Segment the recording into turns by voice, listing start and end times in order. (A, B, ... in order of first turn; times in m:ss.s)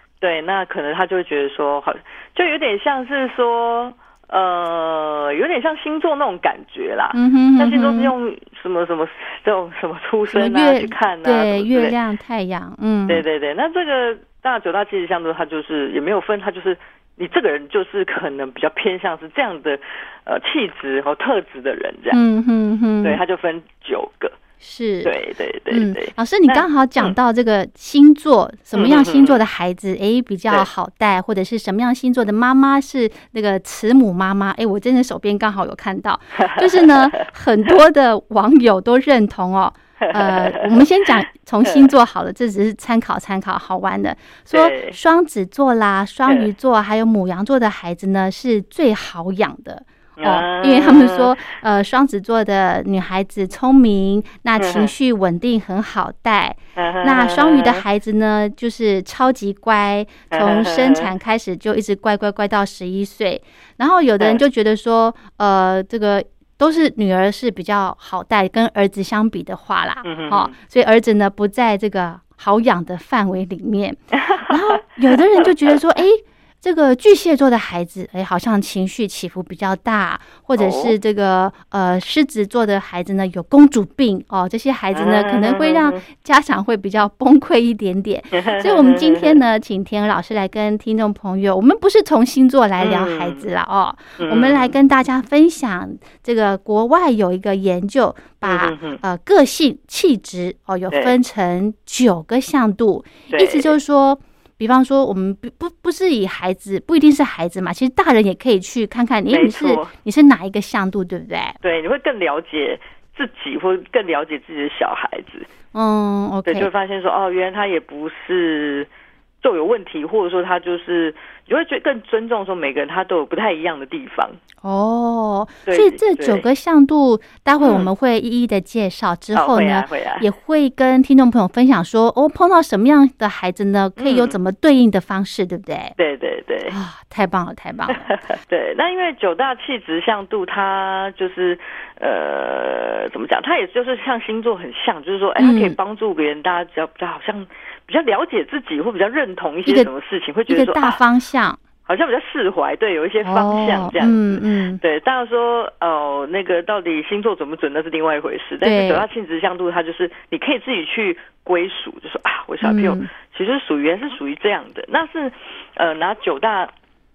0:00.2-0:12.0 A
0:07.1-0:08.1 B
0:10.3-0:13.2 B
0:13.1-0:22.2 A
0:22.1-0:23.2 B
0:23.0-0:24.4 A
0:24.6-0:25.1 B
0:25.0-0:27.1 A
0:25.7-1:51.6 B
0:28.7-0:29.4 A
0:36.4-0:37.2 A
0:40.0-0:40.8 A
0:44.5-0:45.0 A
0:50.2-0:51.4 A
0:54.6-0:54.9 A
0:56.8-0:57.8 A
1:00.3-1:01.1 A
1:10.0-1:10.5 A
1:14.1-1:14.6 A
1:15.1-1:15.5 A
1:20.6-1:20.9 A
1:24.9-1:26.0 A
1:28.3-1:29.4 A
1:32.8-1:33.5 A
1:34.2-1:34.7 A
1:38.4-1:39.0 A
1:40.9-1:41.2 A
1:43.3-1:43.8 A
1:49.3-1:49.9 A
1:51.6-1:55.5 A
1:55.7-1:56.7 B
1:56.4-1:58.9 A
1:59.4-2:04.4 A
2:04.6-2:16.0 B
2:05.6-2:06.4 A
2:07.6-2:07.9 A
2:09.3-2:10.3 A
2:14.0-2:14.4 A
2:16.0-2:16.8 A
2:16.7-2:18.1 B
2:18.0-2:31.0 A
2:25.4-2:25.8 B
2:30.5-2:31.6 B
2:31.8-2:46.7 A
2:33.2-2:34.8 B
2:38.6-2:39.0 B
2:42.6-2:43.1 B